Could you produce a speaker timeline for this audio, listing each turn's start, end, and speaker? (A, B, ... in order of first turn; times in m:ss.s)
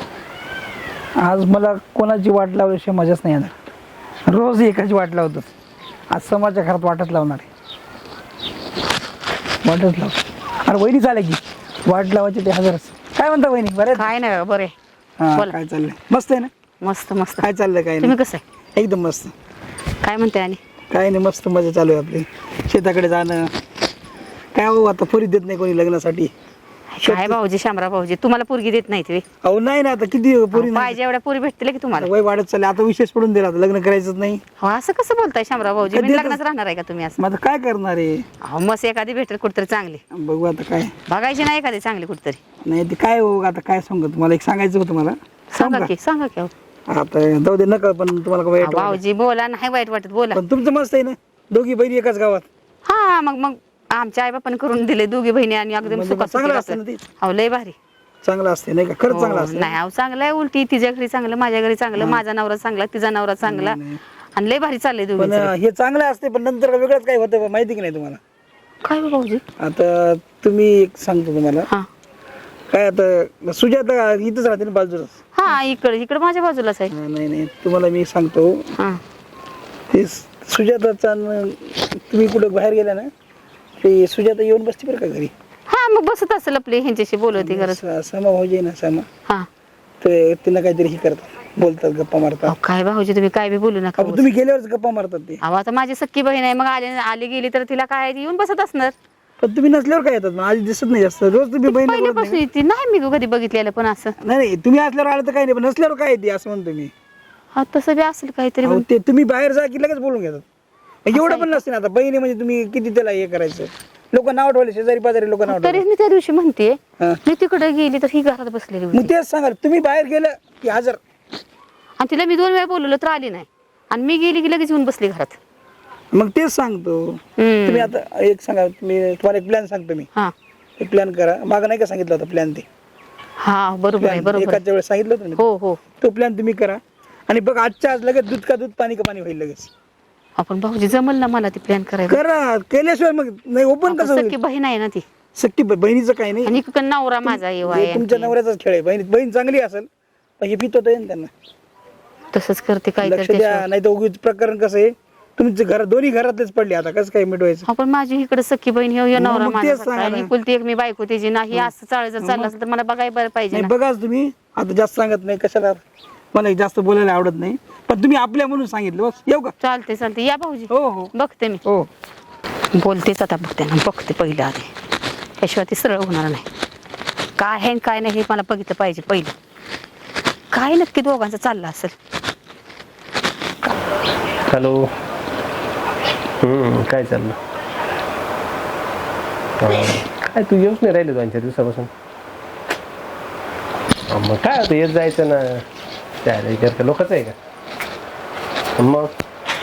0:01.2-0:03.5 A
0:04.3-0:05.5 A
0:06.1-0:07.5 A
0:09.6-0:14.1 A
0:13.9-0:14.7 B
0:15.2-0:16.5 A
0:16.8-0:17.5 B
0:17.4-0:18.2 A
0:18.0-0:18.4 B
0:18.8-0:19.3 A
0:20.0-0:20.6 B
0:20.9-0:23.5 A
0:24.5-0:26.3 A
0:26.9-0:29.2 B
0:27.0-0:27.4 A
0:29.4-0:31.0 A
0:30.5-0:32.1 B
0:32.0-0:34.4 A
0:34.6-0:37.2 B
0:35.9-0:36.4 A
0:37.2-0:38.2 A
0:38.4-0:40.0 B
0:40.1-0:40.9 A
0:41.1-0:42.4 B
0:42.6-0:45.9 A
0:45.5-0:46.5 B
0:46.9-0:49.0 A
0:48.6-0:50.4 B
0:50.3-0:52.4 A
0:52.8-0:57.7 B
0:55.8-0:57.0 A
0:58.2-0:59.7 A
0:59.1-1:03.8 B
1:01.9-1:02.2 A
1:03.4-1:04.0 A
1:04.4-1:05.5 B
1:05.2-1:08.2 A
1:08.8-1:09.4 B
1:09.6-1:11.7 A
1:12.7-1:15.2 A
1:15.3-1:16.9 B
1:16.9-1:18.6 A
1:19.9-1:23.1 A
1:23.8-1:25.3 A
1:25.7-1:27.8 B
1:27.4-1:29.0 A
1:30.0-1:32.6 A
1:32.4-1:34.3 B
1:34.0-1:35.4 A
1:35.4-1:38.9 B
1:39.4-1:42.4 A
1:41.6-1:44.1 B
1:44.2-1:46.9 A
1:47.5-1:48.8 B
1:48.6-1:50.4 A
1:51.0-1:55.8 A
1:51.1-1:51.6 B
1:55.4-1:59.1 B
1:58.9-2:01.0 A
2:02.0-2:05.4 B
2:06.1-2:10.1 A
2:07.4-2:07.9 B
2:10.8-2:12.6 A
2:13.4-2:14.6 B
2:14.0-2:15.4 A
2:15.4-2:15.8 B
2:16.0-2:19.7 A
2:20.4-2:22.2 B
2:22.1-2:24.3 A
2:23.9-2:25.0 B
2:25.4-2:26.6 A
2:26.4-2:28.3 B
2:27.2-2:29.9 A
2:30.4-2:31.3 A
2:32.3-2:33.6 B
2:33.0-2:37.7 A
2:37.7-2:43.7 B
2:39.2-2:40.3 A
2:42.2-2:42.5 A
2:43.5-2:45.8 A
2:46.3-2:49.5 A
2:49.6-2:51.6 B
2:50.7-2:51.1 A
2:52.7-2:54.7 B
2:55.4-2:56.4 B
2:57.4-2:59.3 B
3:00.5-3:01.9 B
3:04.4-3:04.9 C
3:06.4-3:07.4 C
3:09.6-3:11.9 C
3:14.1-3:15.6 C
3:16.2-3:17.3 C
3:18.8-3:19.1 C